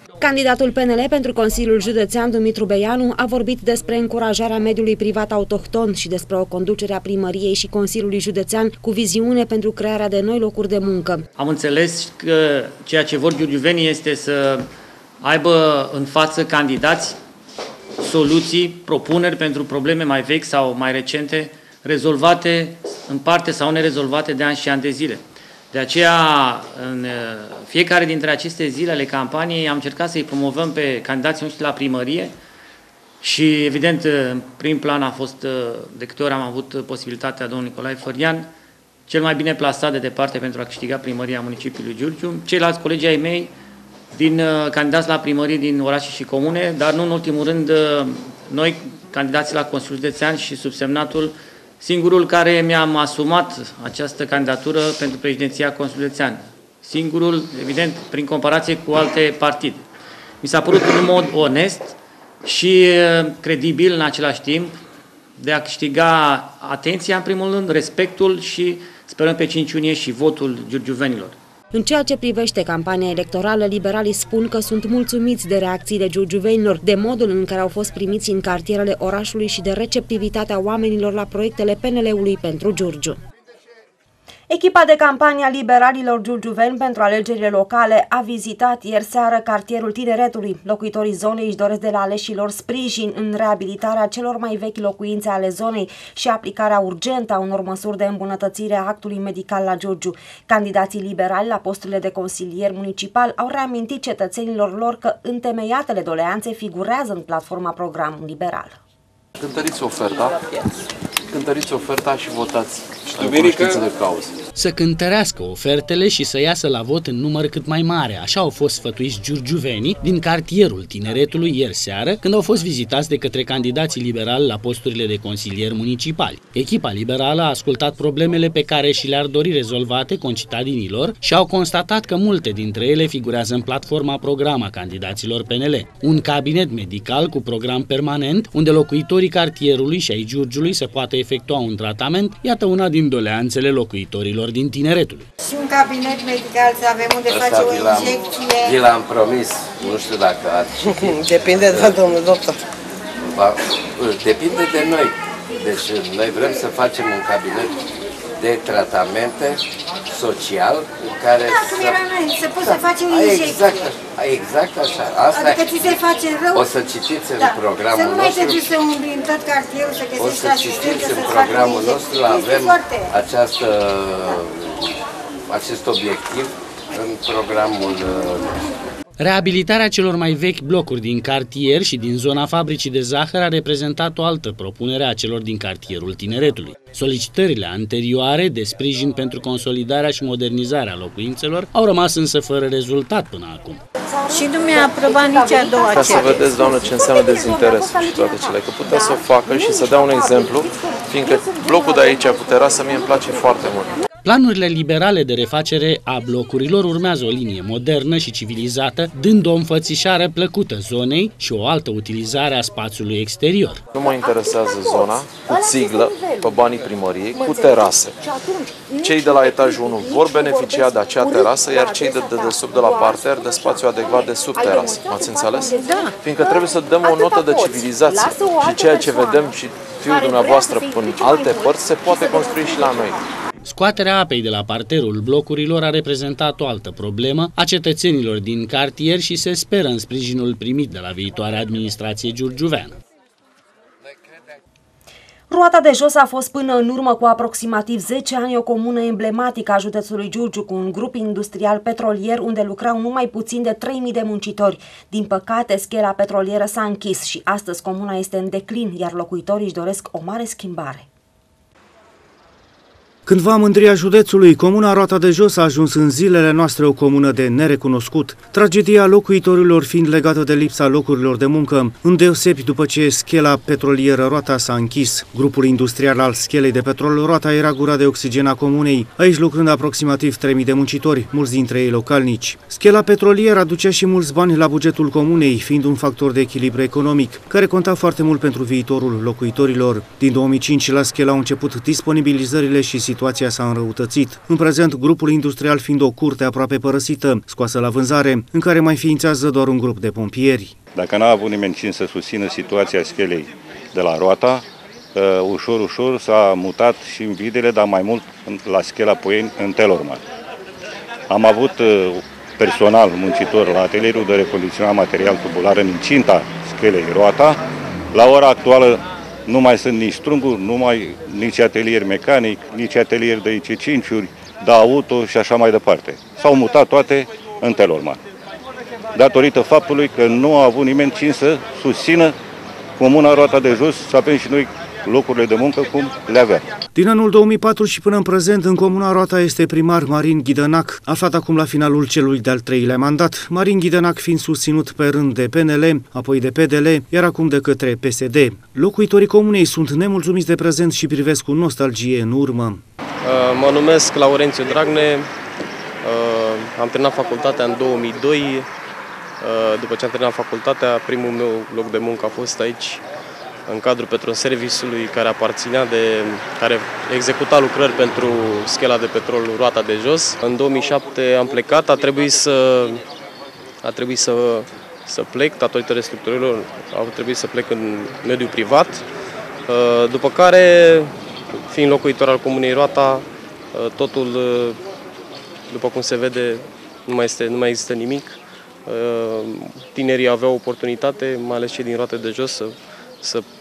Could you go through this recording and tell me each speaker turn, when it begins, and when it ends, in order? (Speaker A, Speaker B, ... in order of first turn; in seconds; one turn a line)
Speaker A: 0.2-11.2
Speaker B: 11.4-14.7
Speaker B: 15.2-17.2
Speaker B: 18.0-32.3
Speaker B: 33.2-38.5
Speaker B: 39.1-43.5
Speaker B: 44.1-59.8
Speaker B: 60.4-64.8
Speaker B: 65.4-71.3
Speaker A: 71.7-83.2
Speaker A: 84.5-108.8
Speaker C: 109.4-110.4
Speaker C: 111.3-114.3
Speaker D: 114.5-145.2
Speaker E: 145.4-148.8
Speaker F: 147.2-152.0
Speaker E: 151.1-152.5
Speaker F: 153.2-157.8
Speaker F: 158.4-162.0
Speaker E: 161.4-163.7
Speaker F: 162.6-166.0
Speaker E: 165.3-166.7
Speaker F: 166.5-168.7
Speaker E: 167.4-173.1
Speaker F: 170.2-178.6
Speaker D: 179.2-193.8
Speaker E: 194.3-196.5
Speaker C: 195.9-204.0
Speaker D: 204.2-213.8
Speaker C: 213.9-218.2
Speaker C: 219.0-233.2
Speaker D: 233.7-242.9
Speaker A: 245.5-261.1
Speaker G: 263.2-300.7
Speaker H: 300.9-304.6
Speaker H: 305.1-310.2
Speaker H: 311.3-317.6
Speaker H: 318.1-328.2
Speaker H: 329.1-332.3
Speaker H: 333.0-336.7
Speaker G: 336.9-352.8
Speaker I: 353.2-355.3
Speaker I: 356.0-358.7
Speaker I: 359.4-363.0
Speaker I: 363.7-373.0
Speaker I: 373.8-379.0
Speaker I: 379.7-384.8
Speaker I: 385.7-393.4